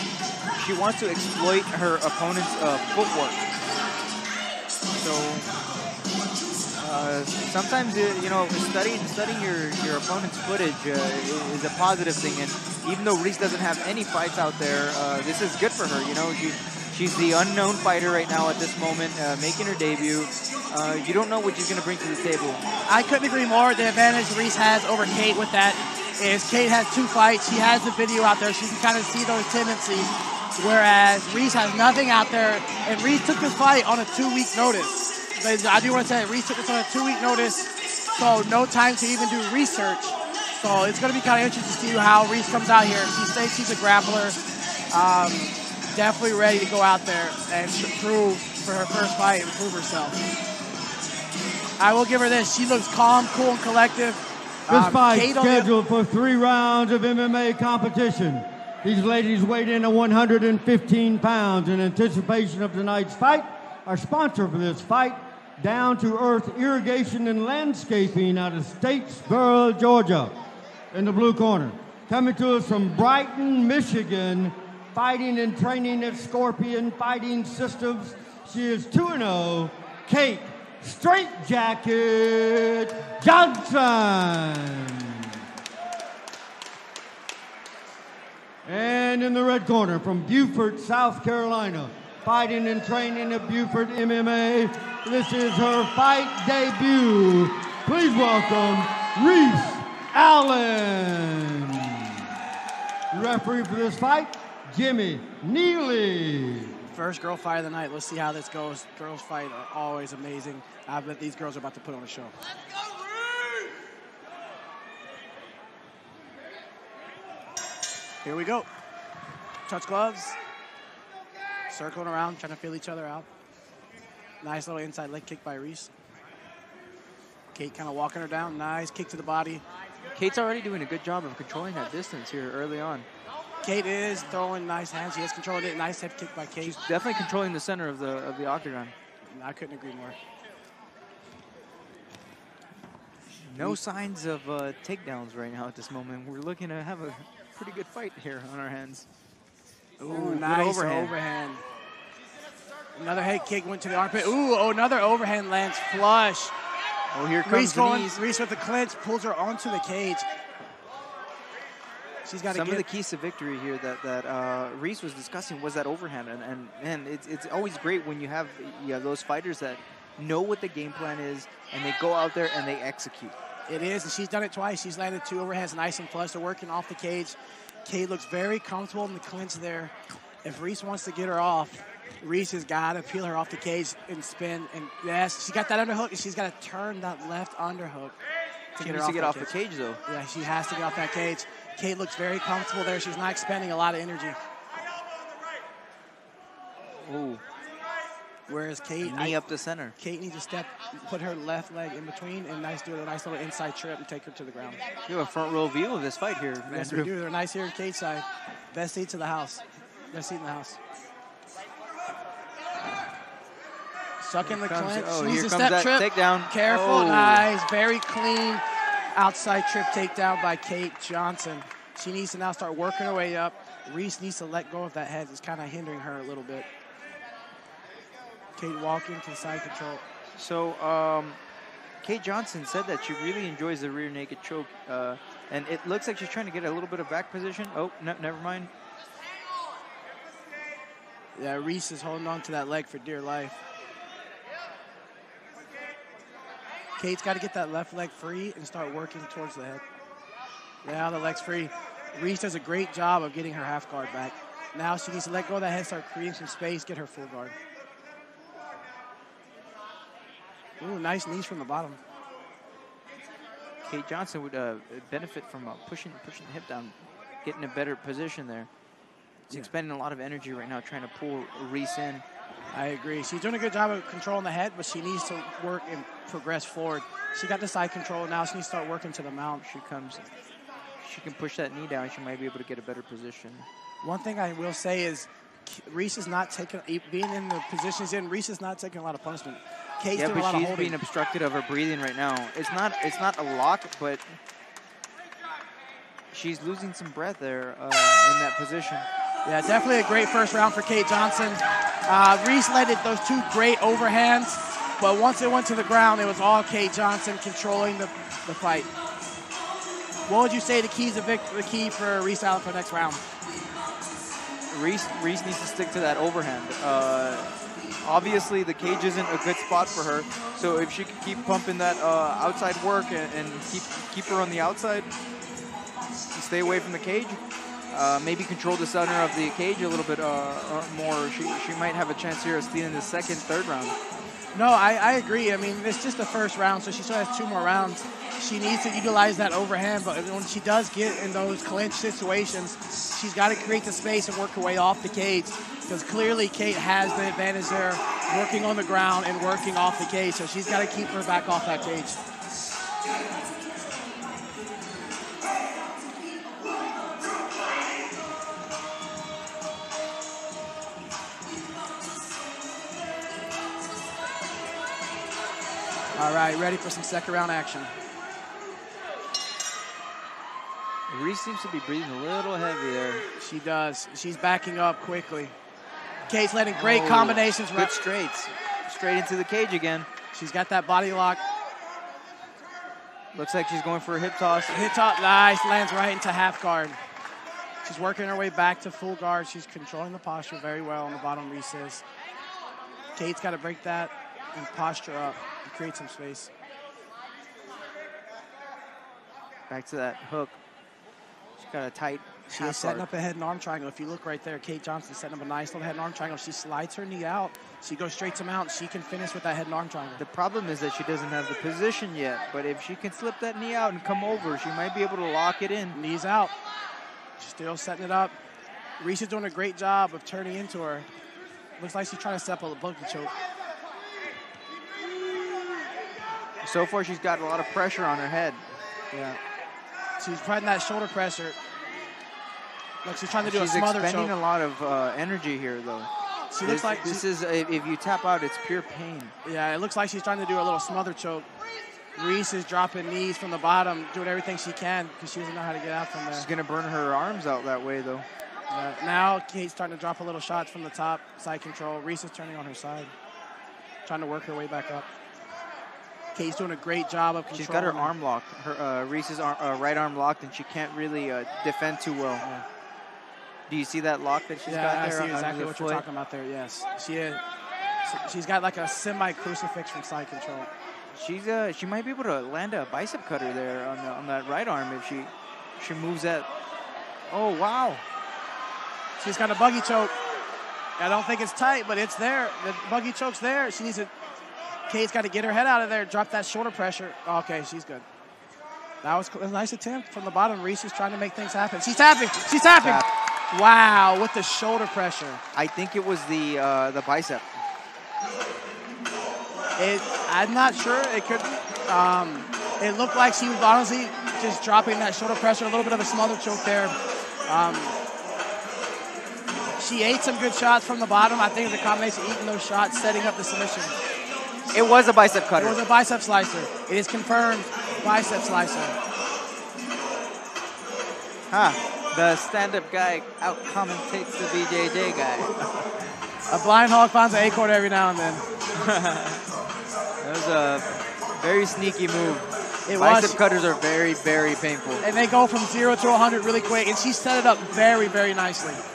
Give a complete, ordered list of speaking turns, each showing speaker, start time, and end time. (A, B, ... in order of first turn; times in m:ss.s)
0:00.5-0:03.4 A
0:04.9-0:05.5 A
0:06.8-0:22.6 A
0:22.9-0:44.4 B
0:44.9-0:50.2 B
0:51.8-0:55.7 B
0:54.7-1:10.3 C
1:10.9-1:25.3 C
1:28.6-1:42.2 C
1:43.1-1:46.8 C
1:46.9-1:52.3 B
1:58.2-1:58.7 B
1:59.7-2:00.4 B
2:01.7-2:03.3 B
2:04.4-2:05.9 B
2:07.5-2:09.6 B
2:10.2-2:13.1 A
2:13.6-2:16.8 B
2:16.6-2:19.0 A
2:19.3-2:20.2 B
2:23.5-2:29.1 A
2:30.0-2:31.6 B
2:30.1-2:31.2 A
2:33.0-2:36.5 B
2:37.1-2:38.2 A
2:37.4-2:40.3 B
2:42.3-2:42.9 B
2:42.5-2:53.4 A
2:53.7-2:59.9 B
3:00.4-3:08.2 B
3:08.7-3:09.5 B
3:08.8-3:10.0 A
3:10.1-3:14.4 B
3:17.0-3:17.4 A
3:18.5-3:19.4 B
3:19.0-3:20.0 A
3:20.0-3:24.8 B
3:25.1-3:27.1 A
3:26.7-3:30.8 B
3:34.2-3:38.6 B
3:34.4-3:37.5 A
3:39.1-3:46.7 B
3:48.6-3:50.0 B
3:50.4-3:51.4 A
3:52.0-3:58.7 A
4:01.4-4:03.6 B
4:07.0-4:09.8 B
4:10.8-4:17.6 B
4:20.8-4:22.0 B
4:23.8-4:28.7 A
4:29.5-4:32.2 A
4:32.7-4:39.6 B
4:39.6-4:40.3 A
4:41.0-4:43.7 A
4:44.0-4:51.0 B
4:50.1-4:54.4 A
4:56.3-4:59.1 A
4:59.4-5:08.9 B
5:10.3-5:13.2 B
5:14.7-5:17.5 A
5:18.0-5:25.1 A
5:26.3-5:27.4 A
5:27.9-5:34.0 A
5:34.5-5:52.2 B
6:06.2-6:07.9 B
6:11.1-6:13.3 A
6:13.4-6:15.5 B
6:16.3-6:17.9 B
6:16.7-6:20.1 A
6:20.3-6:21.4 B
6:23.3-6:24.8 A
6:24.7-6:27.0 B
6:27.8-6:32.0 B
6:33.2-6:36.5 B
6:39.7-6:40.6 A
6:41.6-6:43.1 A
6:42.5-6:50.2 B
6:50.2-6:56.0 A
6:55.9-6:56.5 B
6:57.4-6:58.4 B
6:59.0-7:01.1 B
7:01.8-7:03.3 B
7:06.6-7:09.4 A
7:10.2-7:11.6 B
7:13.0-7:14.4 B
7:13.4-7:16.1 A
7:16.5-7:17.2 B
7:16.6-7:19.3 A
7:19.4-7:21.5 B
7:22.2-7:26.5 B
7:26.3-7:28.3 A
7:28.7-7:33.1 B
7:34.0-7:35.1 B
7:36.4-7:38.1 B
7:37.5-7:42.4 A
7:43.7-7:46.0 A
7:44.7-7:47.4 B
7:48.0-7:50.7 B
7:51.1-7:56.5 A
7:57.3-7:58.0 A
7:59.2-8:00.1 B
8:01.0-8:04.1 B
8:04.9-8:08.0 B
8:09.0-8:15.4 B
8:12.7-8:13.1 A
8:15.5-8:17.5 A
8:19.8-8:27.0 B
8:27.5-8:28.0 B
8:29.8-8:33.9 B
8:34.7-8:35.8 A
8:35.6-8:39.0 B
8:41.5-8:45.6 A
8:46.5-8:48.4 B
8:48.8-8:49.4 A
8:50.2-8:55.0 A
8:52.9-8:53.4 B
8:55.0-8:58.8 B